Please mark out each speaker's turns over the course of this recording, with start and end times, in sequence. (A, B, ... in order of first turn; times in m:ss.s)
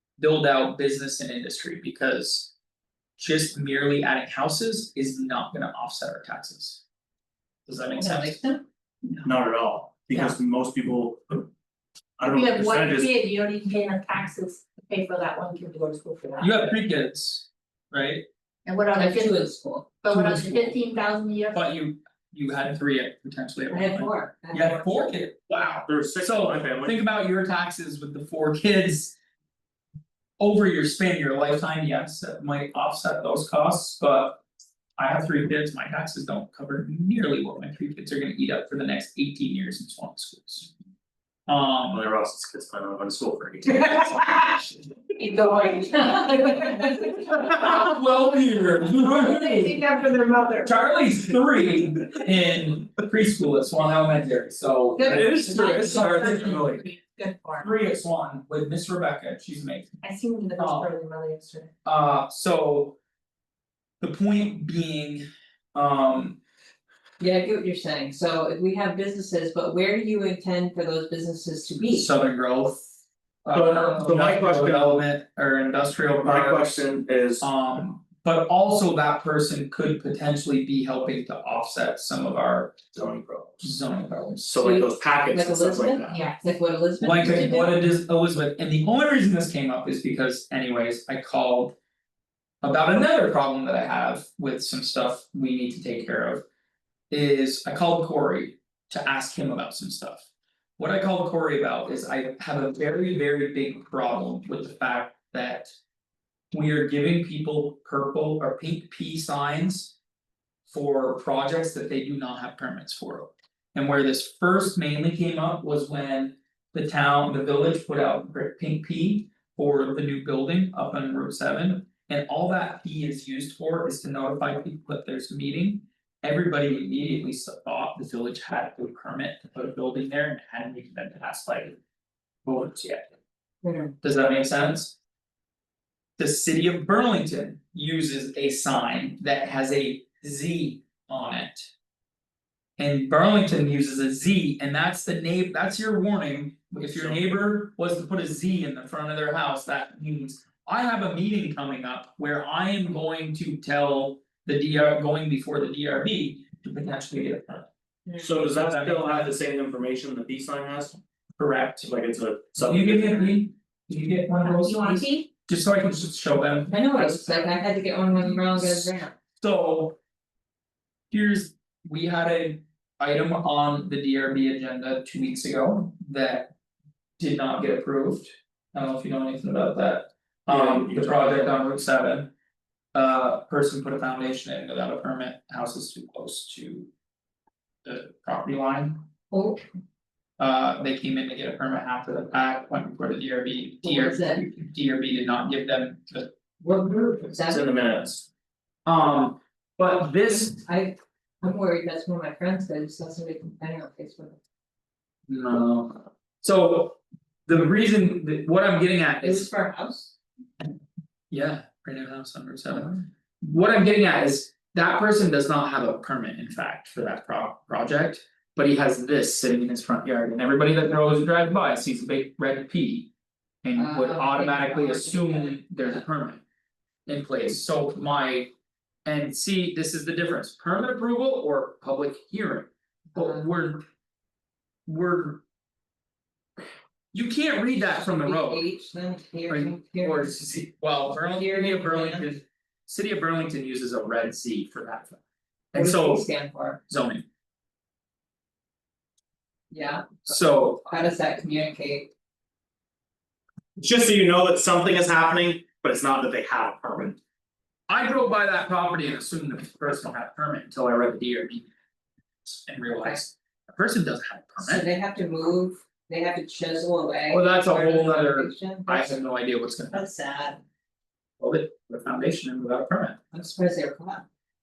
0:00.2-0:02.5 A
0:03.2-0:06.8 A
0:07.7-0:08.4 A
0:07.9-0:08.6 B
0:09.2-0:11.5 C
0:12.2-0:13.1 C
0:12.3-0:16.5 D
0:16.4-0:18.2 A
0:18.6-0:19.4 D
0:18.9-0:19.9 B
0:20.0-0:21.6 D
0:20.1-0:20.8 A
0:21.5-0:29.1 A
0:23.7-0:25.0 B
0:25.9-0:27.0 C
0:30.4-0:34.4 A
0:35.0-0:40.7 A
0:41.5-0:42.0 A
0:41.9-0:44.2 C
0:45.2-0:47.3 B
0:47.3-0:49.8 A
0:49.1-0:50.6 B
0:50.6-0:56.8 A
0:55.0-0:56.1 B
0:55.1-0:57.6 D
0:57.6-0:59.9 A
1:00.0-1:00.6 D
1:00.5-1:01.7 B
1:00.6-1:00.9 A
1:01.8-1:03.0 A
1:04.0-1:06.4 A
1:07.2-1:12.1 B
1:11.9-1:12.9 A
1:13.4-1:16.8 A
1:13.5-1:15.0 C
1:16.2-1:17.5 C
1:17.4-1:22.8 A
1:22.9-1:23.7 C
1:23.6-1:24.5 A
1:24.4-1:26.2 C
1:24.6-1:27.8 B
1:26.1-1:26.4 D
1:27.0-1:31.8 A
1:32.6-1:36.4 A
1:37.1-1:40.3 A
1:40.8-1:45.7 A
1:46.5-1:49.9 A
1:50.7-2:11.8 A
2:12.4-2:13.1 A
2:13.6-2:13.9 B
2:14.0-2:15.0 A
2:16.2-2:21.7 A
2:22.8-2:37.7 A
2:26.9-2:27.2 C
2:38.1-2:38.4 B
2:38.2-2:41.0 C
2:38.4-2:39.3 A
2:41.4-2:41.9 A
2:41.8-2:43.3 C
2:42.6-2:50.0 A
2:44.4-2:45.3 D
2:46.7-2:49.1 B
2:51.1-2:56.5 A
2:57.2-3:02.3 A
3:00.5-3:01.5 C
3:02.9-3:06.9 A
3:07.8-3:09.0 A
3:09.3-3:09.6 B
3:10.4-3:16.3 A
3:13.8-3:14.4 B
3:16.6-3:17.7 B
3:17.5-3:18.3 C
3:18.8-3:20.6 A
3:20.6-3:24.4 B
3:25.3-3:29.5 A
3:29.2-3:30.1 B
3:31.3-3:43.1 A
3:43.6-3:46.4 A
3:43.8-3:46.0 B
3:47.1-3:48.5 A
3:49.0-3:53.8 A
3:53.1-3:53.4 B
3:54.9-3:55.4 A
3:57.1-3:58.6 A
3:58.0-4:00.4 B
3:59.5-4:05.2 A
4:01.3-4:02.3 B
4:05.7-4:06.3 A
4:05.7-4:06.8 B
4:06.8-4:07.2 A
4:09.7-4:12.1 B
4:10.2-4:10.8 A
4:13.8-4:17.2 C
4:17.9-4:21.7 A
4:22.4-4:24.9 A
4:24.6-4:29.2 B
4:27.3-4:30.0 A
4:29.9-4:30.6 B
4:31.4-4:33.2 A
4:33.3-4:34.2 B